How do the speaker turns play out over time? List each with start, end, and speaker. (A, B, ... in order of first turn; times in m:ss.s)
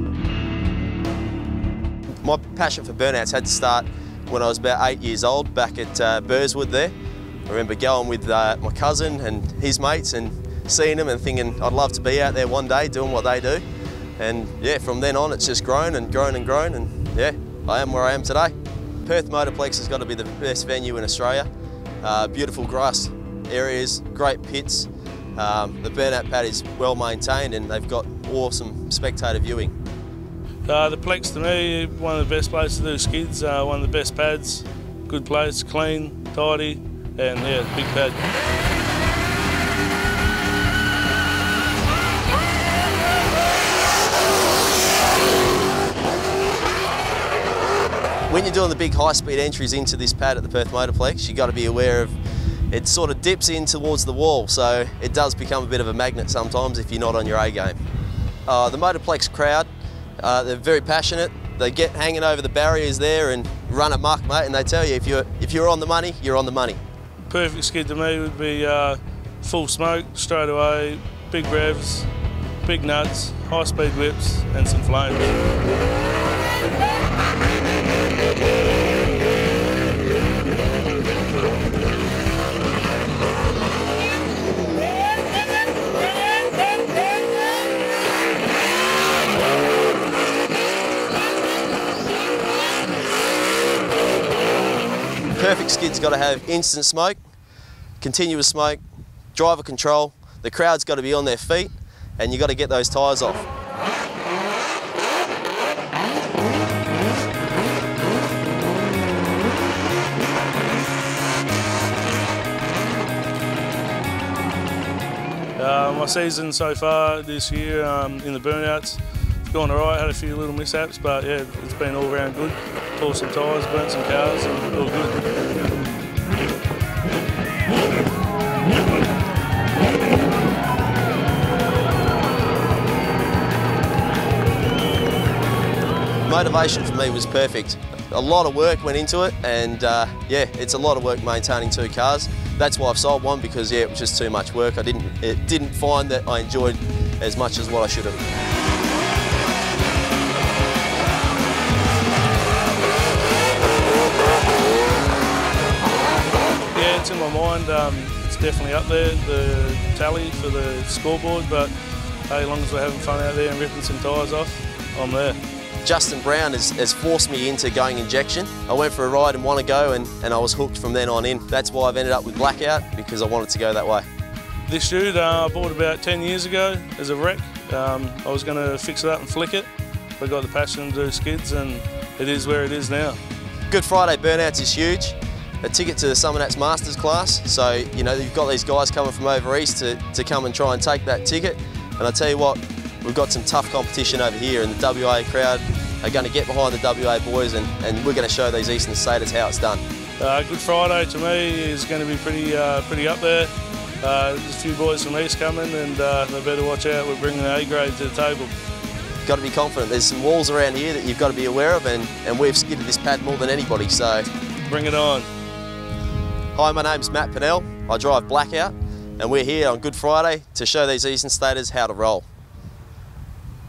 0:02.2-0:06.9 A
0:07.5-0:13.6 A
0:14.2-0:21.5 A
0:22.0-0:29.7 A
0:30.6-0:38.2 B
0:48.3-0:52.1 A
0:52.7-0:57.8 A
0:58.5-0:59.7 A
1:00.2-1:06.8 A
1:07.3-1:12.1 B
1:12.6-1:15.4 B
1:35.4-1:37.2 A
1:38.0-1:38.8 A
1:39.3-1:43.5 A
1:55.6-2:05.3 B
2:16.2-2:28.2 A
2:36.7-2:41.7 B
2:42.3-2:45.4 B
2:45.8-2:54.0 A
2:54.7-3:03.2 B
3:03.7-3:19.8 A
3:20.2-3:28.5 B
3:29.2-3:34.3 A
3:34.7-3:35.3 B
3:36.5-3:42.2 A